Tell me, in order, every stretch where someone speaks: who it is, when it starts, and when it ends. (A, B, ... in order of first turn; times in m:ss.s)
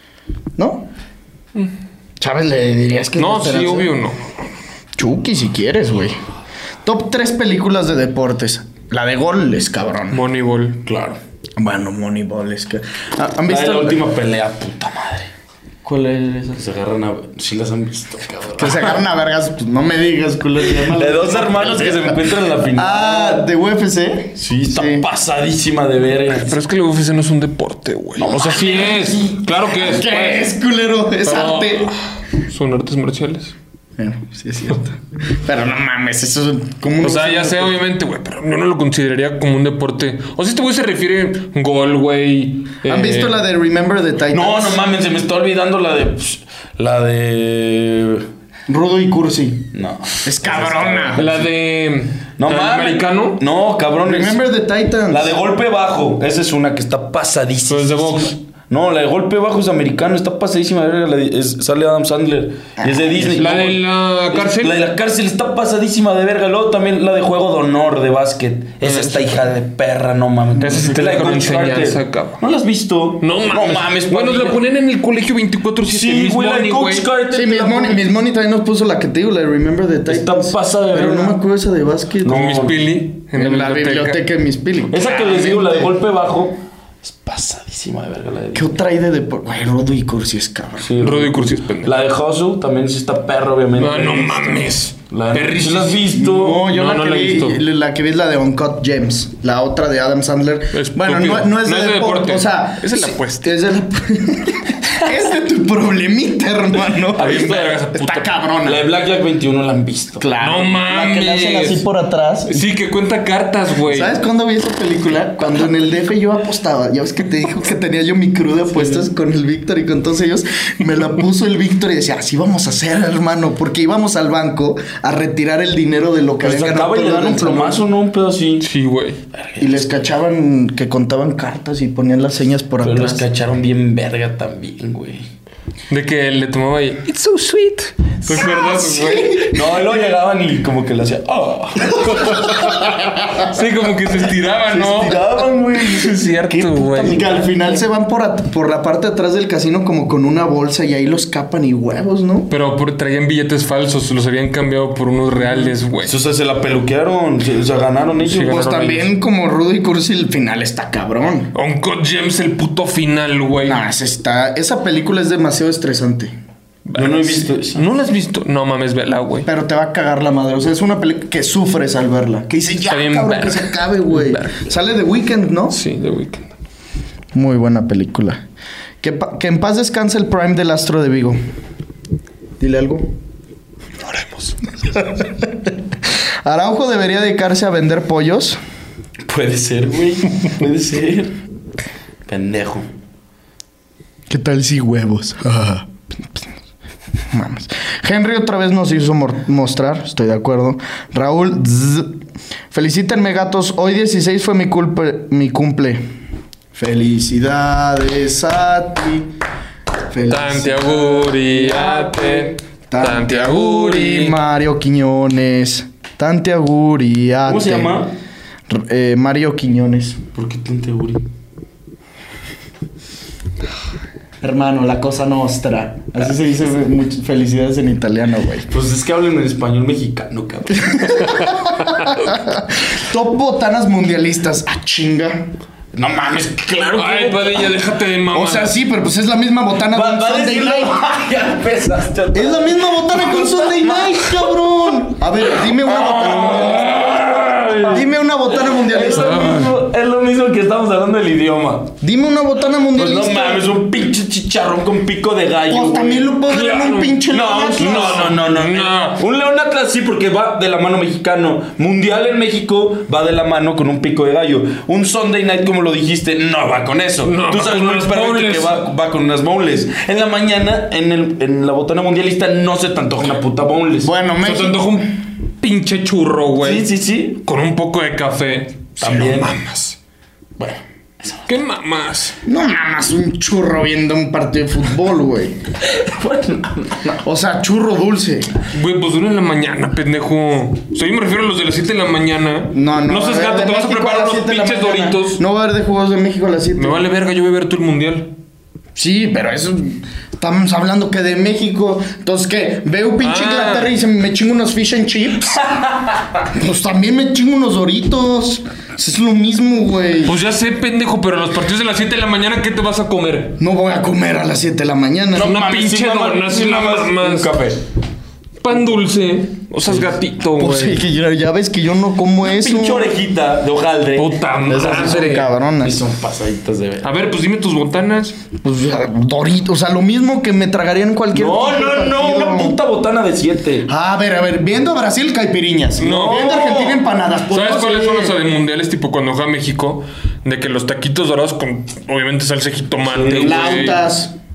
0:00.6-0:00.9 A
0:02.2-0:03.9 A
0:03.2-0:04.5 B
0:05.0-0:06.2 A
0:06.8-0:10.2 A
0:10.1-0:10.8 B
0:10.8-0:11.2 C
0:11.6-0:14.0 A
0:13.5-0:15.3 C
0:15.9-0:19.0 C
0:18.6-0:25.0 A
0:20.7-0:23.4 C
0:24.4-0:26.6 C
0:26.4-0:30.4 B
0:28.2-0:29.4 C
0:29.7-0:31.9 A
0:31.2-0:33.5 B
0:34.0-0:37.8 A
0:37.0-0:43.4 B
0:42.8-0:44.8 A
0:44.3-0:48.3 C
0:48.7-0:49.7 A
0:49.7-0:51.5 C
0:50.2-0:51.2 A
0:51.1-0:53.4 B
0:52.4-0:54.5 C
0:54.0-0:55.3 A
0:55.1-1:14.6 C
0:57.7-0:58.4 B
1:02.8-1:03.4 A
1:03.3-1:04.8 B
1:08.8-1:09.4 B
1:10.6-1:12.4 B
1:13.2-1:17.1 B
1:15.8-1:18.0 C
1:17.3-1:22.5 A
1:20.1-1:21.4 C
1:22.2-1:22.8 C
1:22.2-1:24.2 B
1:23.3-1:25.9 A
1:24.9-1:28.8 C
1:28.5-1:30.9 A
1:30.8-1:34.6 C
1:31.0-1:31.9 B
1:33.8-1:36.1 B
1:35.1-1:36.6 C
1:36.1-1:48.8 A
1:36.6-1:37.6 B
1:40.7-1:43.5 B
1:47.1-1:47.8 C
1:47.2-1:48.3 B
1:48.6-1:50.2 C
1:50.2-1:52.6 A
1:50.4-1:51.8 B
1:52.5-1:54.2 B
1:53.9-2:07.8 A
1:58.7-1:59.0 C
2:06.4-2:08.7 C
2:08.6-2:09.2 B
2:09.3-2:10.0 C
2:09.6-2:13.2 A
2:12.8-2:15.3 C
2:15.9-2:19.5 B
2:18.3-2:19.7 A
2:19.4-2:22.5 C
2:22.1-2:25.2 B
2:24.7-2:27.8 C
2:25.8-2:27.2 B
2:27.0-2:32.5 A
2:32.5-2:36.1 B
2:36.0-2:38.7 C
2:38.2-2:39.1 B
2:38.4-2:41.5 A
2:41.5-2:43.8 B
2:43.6-2:46.3 A
2:46.9-2:49.5 B
2:47.0-2:47.8 C
2:49.4-2:55.8 A
2:52.9-2:54.6 B
2:55.7-2:56.5 B
2:57.3-2:58.4 A
2:59.0-3:01.4 A
3:02.6-3:03.1 A
3:04.0-3:04.6 B
3:04.9-3:08.6 A
3:09.3-3:11.4 C
3:12.3-3:12.9 C
3:14.3-3:16.5 A
3:17.3-3:22.2 A
3:22.7-3:26.1 A
3:26.7-3:29.3 A
3:30.1-3:38.0 A
3:30.3-3:34.4 B
3:37.4-3:38.1 C
3:38.7-3:40.2 A
3:40.3-3:41.3 C
3:44.4-3:48.7 A
3:48.7-3:51.4 C
3:50.9-3:55.5 A
3:55.9-3:57.7 C
3:56.9-3:58.8 B
3:58.3-4:01.0 A
3:59.9-4:08.0 C
4:02.3-4:07.1 A
4:07.9-4:09.6 A
4:08.6-4:11.9 C
4:09.1-4:09.7 B
4:12.0-4:13.7 A
4:12.9-4:16.4 C
4:15.7-4:18.3 A
4:16.5-4:17.2 B
4:17.3-4:34.1 C
4:17.8-4:19.2 B
4:27.2-4:28.8 B
4:34.0-4:35.0 A
4:34.4-4:36.9 B
4:36.6-4:37.4 C
4:37.4-4:40.0 B
4:39.0-4:39.5 C
4:40.6-4:41.5 C
4:41.5-4:42.4 B
4:42.4-4:45.6 A
4:45.8-4:47.2 C
4:47.2-4:48.5 A
4:48.7-4:55.4 B
4:52.7-4:57.0 A
4:56.8-4:58.3 B
4:59.0-5:05.8 A
5:03.2-5:03.9 B
5:06.4-5:10.4 A
5:10.2-5:13.6 B
5:13.6-5:15.6 A
5:15.4-5:17.8 C
5:15.4-5:17.5 B
5:18.6-5:21.0 B
5:20.6-5:23.1 A
5:22.4-5:27.1 C
5:24.2-5:25.5 B
5:24.7-5:26.0 A
5:27.0-5:28.3 B
5:28.6-5:32.8 A
5:31.3-5:33.9 C
5:33.8-5:38.4 A
5:36.0-5:36.8 B
5:36.0-5:37.0 C
5:37.5-5:44.0 B
5:43.0-5:43.9 C
5:43.4-5:44.3 A